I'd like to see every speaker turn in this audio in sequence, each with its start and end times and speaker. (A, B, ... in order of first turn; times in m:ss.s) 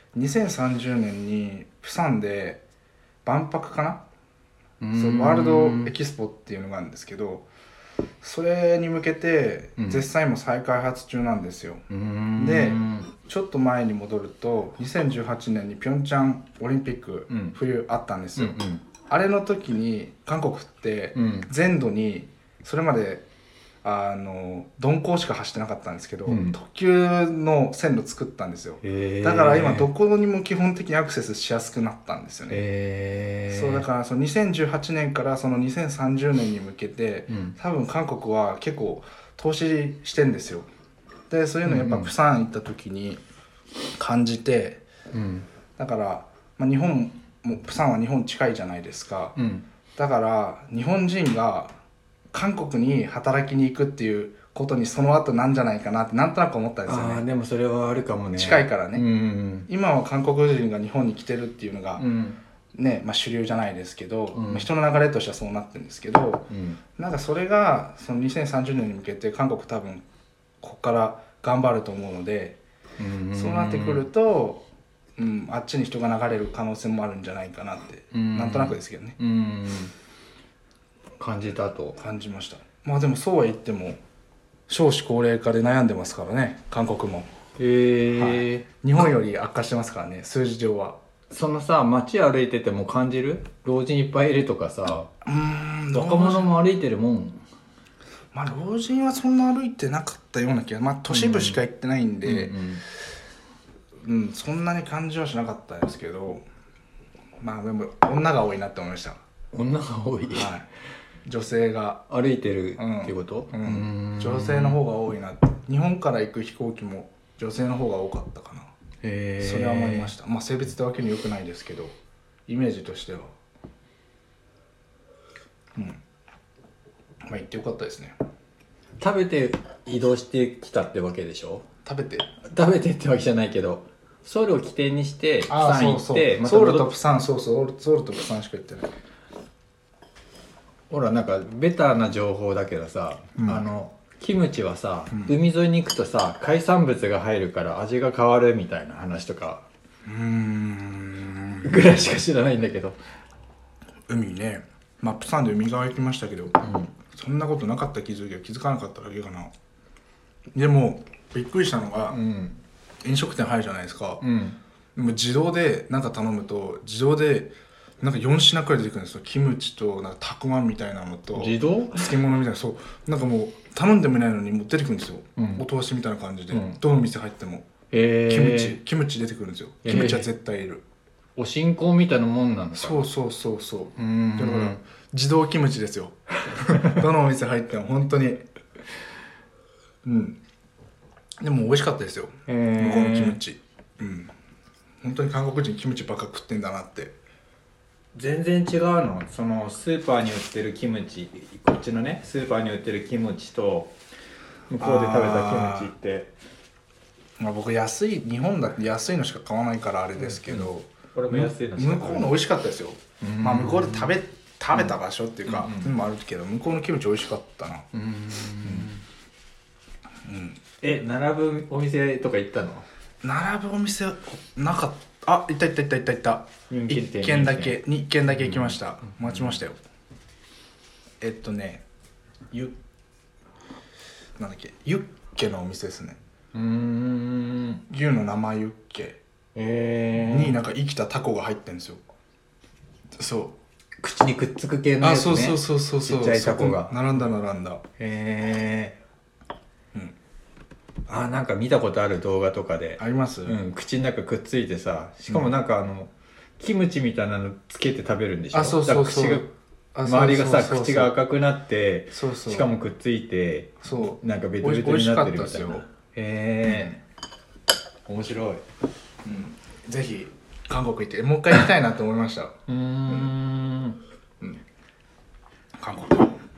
0:00.1-0:02.6 A
0:03.2-0:04.0 A
0:04.8-0:05.9 B
0:04.9-0:07.4 A
0:08.2-0:11.8 A
0:09.8-0:10.0 B
0:11.9-0:13.1 B
0:12.4-0:23.2 A
0:17.3-0:17.6 B
0:18.4-0:18.8 B
0:21.1-0:21.5 B
0:23.8-0:32.6 A
0:26.2-0:26.6 B
0:28.8-0:29.9 B
0:32.5-0:33.8 B
0:33.5-0:40.7 A
0:37.3-0:37.6 B
0:41.3-0:43.2 A
0:41.6-0:42.1 B
0:44.0-0:44.8 A
0:45.1-0:45.5 B
0:45.8-0:49.4 A
0:49.4-0:49.6 B
0:50.0-0:51.7 A
0:52.3-0:57.2 A
0:56.8-0:59.7 B
0:58.4-0:59.0 A
0:59.7-1:02.0 A
1:02.0-1:02.4 B
1:02.7-1:10.0 A
1:04.3-1:04.7 B
1:06.5-1:06.8 B
1:10.6-1:12.6 A
1:13.0-1:14.0 B
1:13.3-1:14.6 A
1:15.2-1:19.2 A
1:18.1-1:19.9 B
1:21.2-1:22.0 B
1:22.0-1:24.0 A
1:24.7-1:27.3 A
1:27.6-1:29.0 B
1:28.1-1:31.0 A
1:31.3-1:35.1 B
1:35.2-1:36.5 A
1:35.9-1:37.4 B
1:38.3-1:42.6 A
1:41.1-1:41.6 B
1:42.2-1:42.8 B
1:44.0-1:46.4 A
1:47.4-1:49.2 A
1:49.5-1:50.5 B
1:50.3-1:50.7 A
1:51.2-1:52.1 A
1:52.1-1:54.8 B
1:52.8-1:58.7 A
1:59.0-2:00.1 B
1:59.4-2:01.9 A
2:02.5-2:03.3 A
2:07.2-2:08.2 A
2:09.0-2:11.7 B
2:11.8-2:12.3 A
2:12.4-2:16.9 B
2:15.5-2:18.9 A
2:20.9-2:29.6 B
2:23.4-2:23.6 A
2:30.0-2:32.0 A
2:31.6-2:33.0 B
2:34.1-2:36.6 A
2:36.6-2:36.9 B
2:37.1-2:39.5 A
2:40.5-2:42.2 A
2:42.1-2:42.6 B
2:43.0-2:44.2 A
2:44.2-2:44.6 B
2:45.0-2:57.7 A
2:51.3-2:52.1 B
2:55.4-2:55.6 B
2:56.5-2:56.8 B
2:57.9-2:58.8 B
2:58.3-3:00.8 A
2:59.8-3:00.3 B
3:01.4-3:03.0 B
3:02.7-3:08.4 A
3:04.0-3:04.8 B
3:06.7-3:07.0 B
3:10.0-3:10.4 A
3:11.4-3:14.3 A
3:12.5-3:13.4 B
3:15.0-3:17.2 A
3:18.1-3:23.9 B
3:24.7-3:26.3 B
3:24.8-3:25.9 A
3:27.4-3:37.9 A
3:30.2-3:32.4 B
3:33.2-3:34.2 B
3:35.4-3:35.9 B
3:37.9-3:39.0 B
3:38.6-3:38.9 A
3:40.2-3:40.6 A
3:40.8-3:42.8 B
3:43.2-3:49.8 A
3:46.7-3:47.8 B
3:48.3-3:49.6 B
3:51.2-3:51.8 A
3:54.4-3:56.2 A
3:56.5-3:57.8 B
3:57.9-3:59.2 A
3:59.5-4:00.6 B
4:00.2-4:02.0 A
4:03.2-4:03.5 A
4:04.0-4:07.3 B
4:05.0-4:07.8 A
4:08.0-4:09.0 B
4:11.1-4:19.5 B
4:13.0-4:13.6 A
4:18.5-4:21.1 A
4:20.0-4:27.0 B
4:22.1-4:22.7 A
4:23.8-4:25.8 A
4:26.6-4:27.0 A
4:28.1-4:28.6 B
4:29.2-4:32.6 A
4:32.7-4:34.0 B
4:35.8-4:36.3 A